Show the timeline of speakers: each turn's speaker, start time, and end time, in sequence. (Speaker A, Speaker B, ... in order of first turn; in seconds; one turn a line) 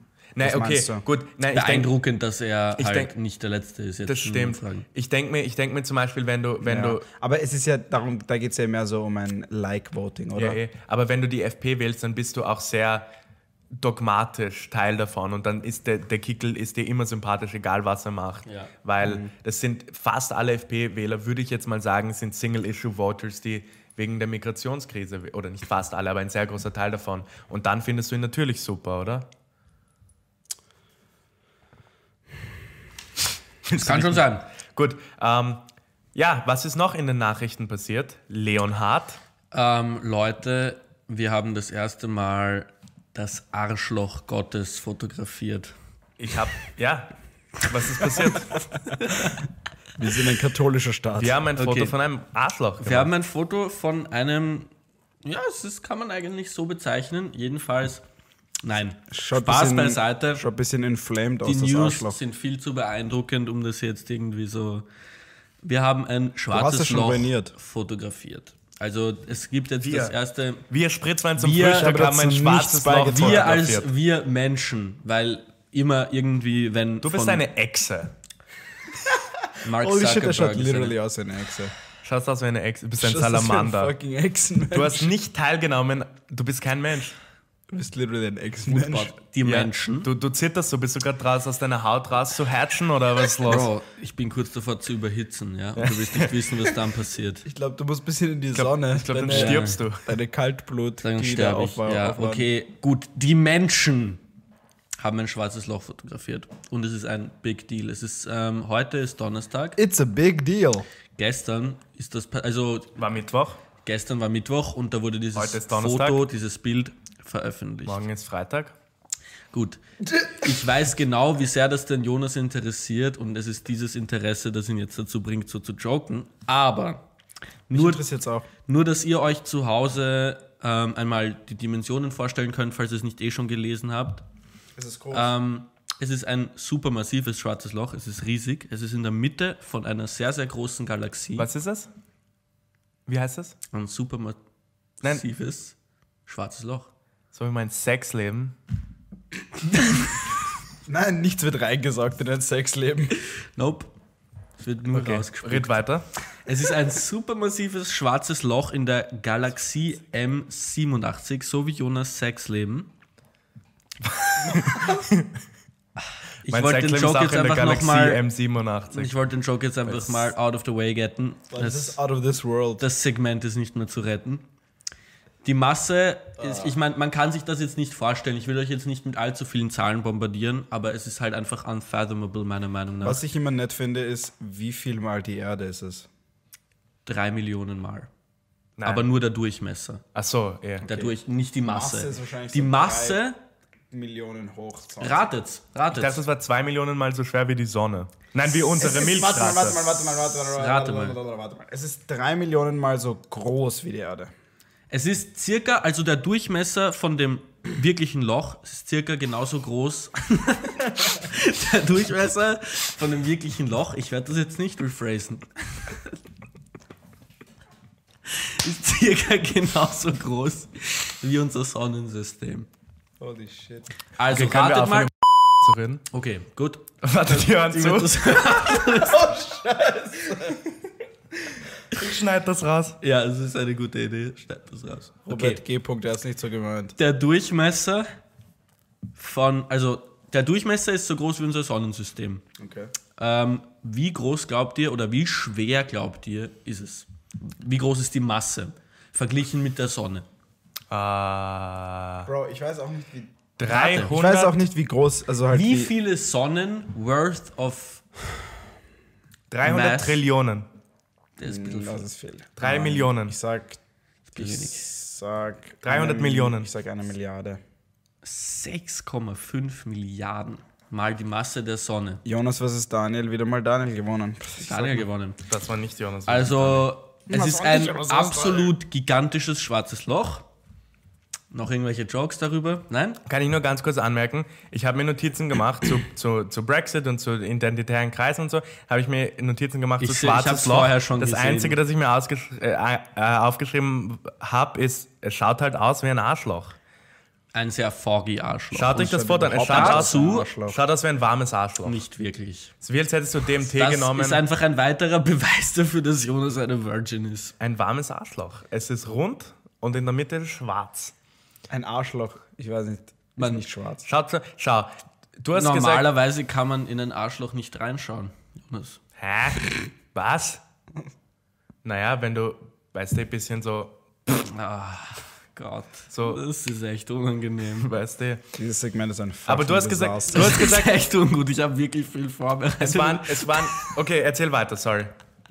Speaker A: 0.3-1.9
Speaker B: 0.4-1.0
Speaker C: 1.5-4.8
Speaker A: 2.8-3.1
Speaker A: 4.1-7.0
Speaker B: 6.6-10.6
Speaker A: 10.3-13.1
Speaker A: 13.7-29.3
Speaker C: 18.4-18.7
Speaker B: 19.0-19.3
Speaker A: 33.6-35.6
Speaker C: 33.8-34.5
Speaker A: 36.1-39.2
Speaker C: 39.5-45.7
Speaker A: 46.2-48.6
Speaker C: 49.0-49.3
Speaker B: 50.0-51.4
Speaker A: 51.2-53.1
Speaker C: 51.5-51.9
Speaker C: 52.8-54.7
Speaker C: 55.2-58.0
Speaker C: 58.6-60.4
Speaker B: 59.1-62.1
Speaker C: 61.4-64.8
Speaker C: 65.6-70.6
Speaker B: 66.5-67.5
Speaker A: 69.8-70.1
Speaker A: 70.7-73.9
Speaker C: 71.4-71.9
Speaker B: 71.7-73.6
Speaker C: 73.0-77.4
Speaker A: 77.0-78.1
Speaker B: 79.1-81.7
Speaker C: 79.6-81.0
Speaker A: 82.0-83.9
Speaker B: 83.0-85.1
Speaker A: 84.7-87.2
Speaker B: 87.7-89.1
Speaker C: 88.7-90.1
Speaker A: 89.4-93.7
Speaker C: 93.4-97.4
Speaker A: 95.8-96.4
Speaker B: 97.4-102.5
Speaker A: 98.5-100.0
Speaker C: 99.3-99.8
Speaker C: 101.0-104.2
Speaker C: 105.0-109.8
Speaker B: 109.8-110.8
Speaker C: 111.2-113.0
Speaker A: 113.0-113.6
Speaker C: 113.8-118.0
Speaker A: 115.3-116.3
Speaker A: 117.8-118.7
Speaker C: 119.5-127.0
Speaker C: 127.7-128.0
Speaker B: 127.7-128.5
Speaker C: 128.7-134.2
Speaker B: 134.8-135.3
Speaker C: 135.1-141.5
Speaker A: 141.4-141.9
Speaker A: 143.1-143.6
Speaker C: 143.7-144.4
Speaker C: 145.0-145.7
Speaker C: 146.3-146.9
Speaker A: 147.3-148.6
Speaker C: 149.7-150.2
Speaker B: 150.9-153.2
Speaker C: 153.4-153.9
Speaker C: 154.6-155.8
Speaker A: 154.9-156.1
Speaker C: 156.4-162.9
Speaker A: 164.0-165.4
Speaker B: 164.5-165.0
Speaker C: 166.4-168.2
Speaker A: 166.5-169.1
Speaker C: 168.9-172.0
Speaker A: 169.8-170.3
Speaker B: 171.5-172.8
Speaker C: 172.8-174.4
Speaker C: 175.4-183.2
Speaker B: 176.4-176.7
Speaker B: 183.0-186.1
Speaker C: 187.1-188.1
Speaker A: 188.8-189.1
Speaker C: 188.8-190.0
Speaker A: 190.1-190.8
Speaker C: 190.8-193.3
Speaker B: 190.8-191.1
Speaker B: 191.6-193.2
Speaker B: 193.9-195.3
Speaker C: 195.0-196.2
Speaker A: 195.9-200.1
Speaker B: 198.7-204.3
Speaker C: 200.4-201.2
Speaker C: 204.9-216.1
Speaker C: 218.3-222.7
Speaker B: 223.2-223.9
Speaker C: 224.2-225.1
Speaker A: 224.3-226.0
Speaker C: 226.1-229.3
Speaker A: 227.0-228.5
Speaker B: 228.8-230.6
Speaker A: 231.9-233.0
Speaker C: 233.0-235.6
Speaker B: 235.3-236.9
Speaker C: 237.0-238.1
Speaker C: 239.2-242.4
Speaker B: 242.6-242.9
Speaker C: 243.2-250.2
Speaker A: 250.9-252.3
Speaker B: 252.2-253.3
Speaker A: 253.6-254.6
Speaker C: 253.7-254.2
Speaker B: 254.1-255.9
Speaker C: 255.5-258.0
Speaker A: 259.5-260.7
Speaker C: 259.6-260.2
Speaker C: 261.4-262.1
Speaker B: 261.4-263.8
Speaker A: 262.6-263.4
Speaker C: 264.3-264.9
Speaker B: 264.4-267.6
Speaker A: 265.8-266.7
Speaker C: 268.2-272.2
Speaker B: 272.2-275.1
Speaker C: 274.6-275.4
Speaker A: 275.5-276.9
Speaker C: 276.3-280.4
Speaker B: 277.3-278.7
Speaker C: 281.5-283.2
Speaker A: 283.2-296.8
Speaker C: 290.0-291.8
Speaker C: 297.5-299.1
Speaker A: 298.7-302.0
Speaker B: 298.9-300.8
Speaker C: 299.6-300.5
Speaker C: 301.8-302.7
Speaker A: 302.8-304.4
Speaker C: 303.7-307.5
Speaker A: 307.6-311.1
Speaker B: 311.7-314.1
Speaker C: 313.4-313.6
Speaker A: 314.1-316.1
Speaker C: 315.6-319.0
Speaker A: 319.2-320.6
Speaker A: 321.8-324.0
Speaker C: 324.3-327.9
Speaker A: 326.1-326.4
Speaker A: 327.8-328.4
Speaker B: 328.6-330.6
Speaker A: 329.5-331.0
Speaker C: 330.3-333.9
Speaker A: 332.8-335.1